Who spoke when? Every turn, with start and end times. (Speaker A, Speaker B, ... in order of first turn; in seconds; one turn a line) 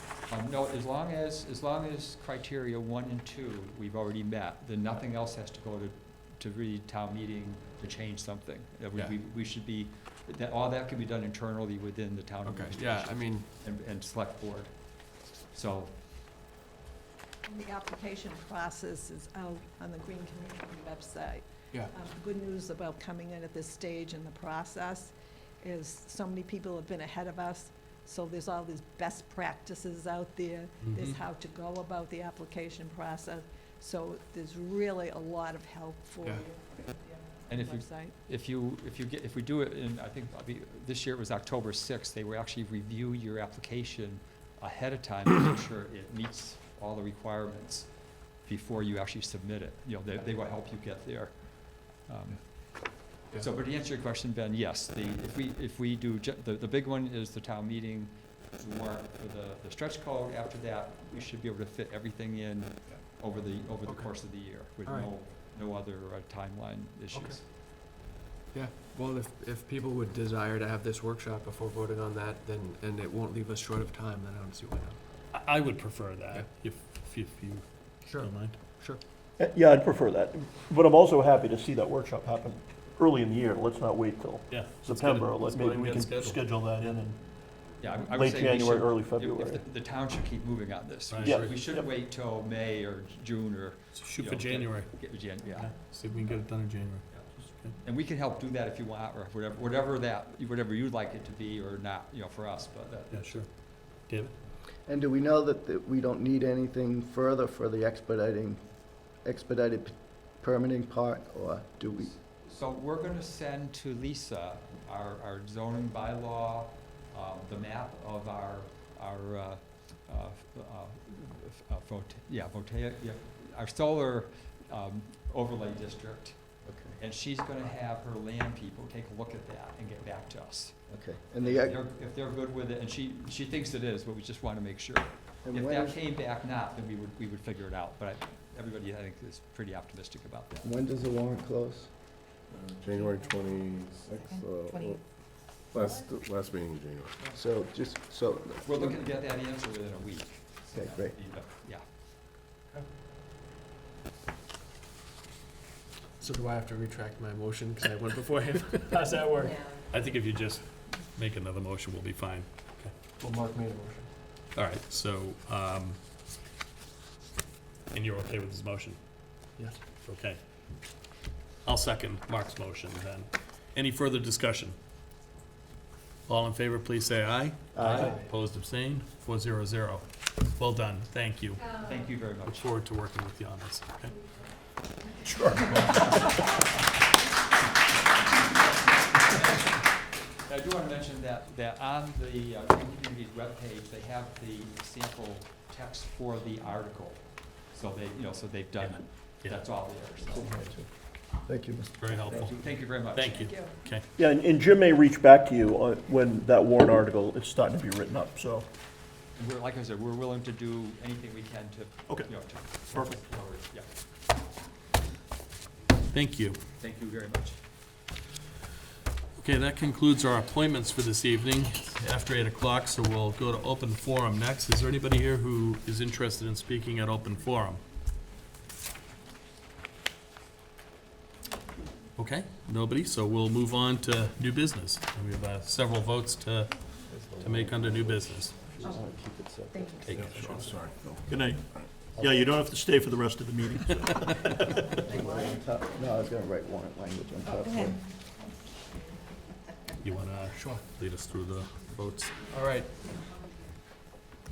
Speaker A: 0.3-14.7
Speaker B: 12.4-13.5
Speaker A: 15.5-16.0
Speaker C: 17.5-38.1
Speaker D: 30.8-31.1
Speaker A: 37.5-67.5
Speaker B: 64.8-65.1
Speaker B: 67.1-67.4
Speaker B: 68.5-75.0
Speaker D: 75.3-78.6
Speaker B: 78.1-79.0
Speaker E: 79.4-87.2
Speaker D: 84.5-86.6
Speaker A: 87.8-95.7
Speaker E: 88.1-89.6
Speaker D: 91.1-91.6
Speaker E: 91.2-91.8
Speaker D: 94.0-97.8
Speaker A: 97.8-103.4
Speaker D: 103.1-104.3
Speaker F: 104.9-108.6
Speaker F: 109.2-112.1
Speaker A: 112.0-140.7
Speaker F: 126.7-127.0
Speaker F: 130.9-131.8
Speaker F: 135.4-136.0
Speaker F: 140.6-141.9
Speaker G: 142.8-145.0
Speaker G: 145.8-147.1
Speaker F: 147.4-149.0
Speaker A: 148.6-151.8
Speaker F: 150.7-151.2
Speaker B: 156.2-159.6
Speaker D: 159.8-162.9
Speaker B: 163.2-164.1
Speaker D: 164.5-166.0
Speaker D: 167.9-169.0
Speaker D: 170.0-170.4
Speaker D: 171.7-174.8
Speaker D: 176.3-181.8
Speaker F: 177.8-178.1
Speaker B: 178.0-178.3
Speaker A: 181.8-182.7
Speaker D: 182.4-184.2
Speaker E: 185.2-186.3
Speaker A: 189.2-189.8
Speaker A: 190.4-200.5
Speaker D: 198.8-199.6
Speaker F: 200.3-200.9
Speaker F: 201.4-201.9
Speaker D: 202.0-204.1
Speaker A: 202.1-203.5
Speaker C: 203.4-203.8
Speaker E: 204.2-208.7
Speaker A: 209.3-213.9
Speaker E: 212.8-213.2
Speaker D: 216.1-216.6
Speaker A: 216.8-217.6
Speaker D: 219.4-227.8
Speaker D: 232.2-238.6
Speaker F: 237.7-238.2
Speaker F: 238.8-240.0
Speaker C: 239.7-240.8
Speaker D: 240.1-240.7
Speaker E: 241.3-244.8
Speaker D: 244.0-244.4
Speaker F: 245.0-248.0
Speaker C: 245.1-245.4
Speaker D: 250.0-252.3
Speaker B: 250.5-250.8
Speaker B: 252.5-253.1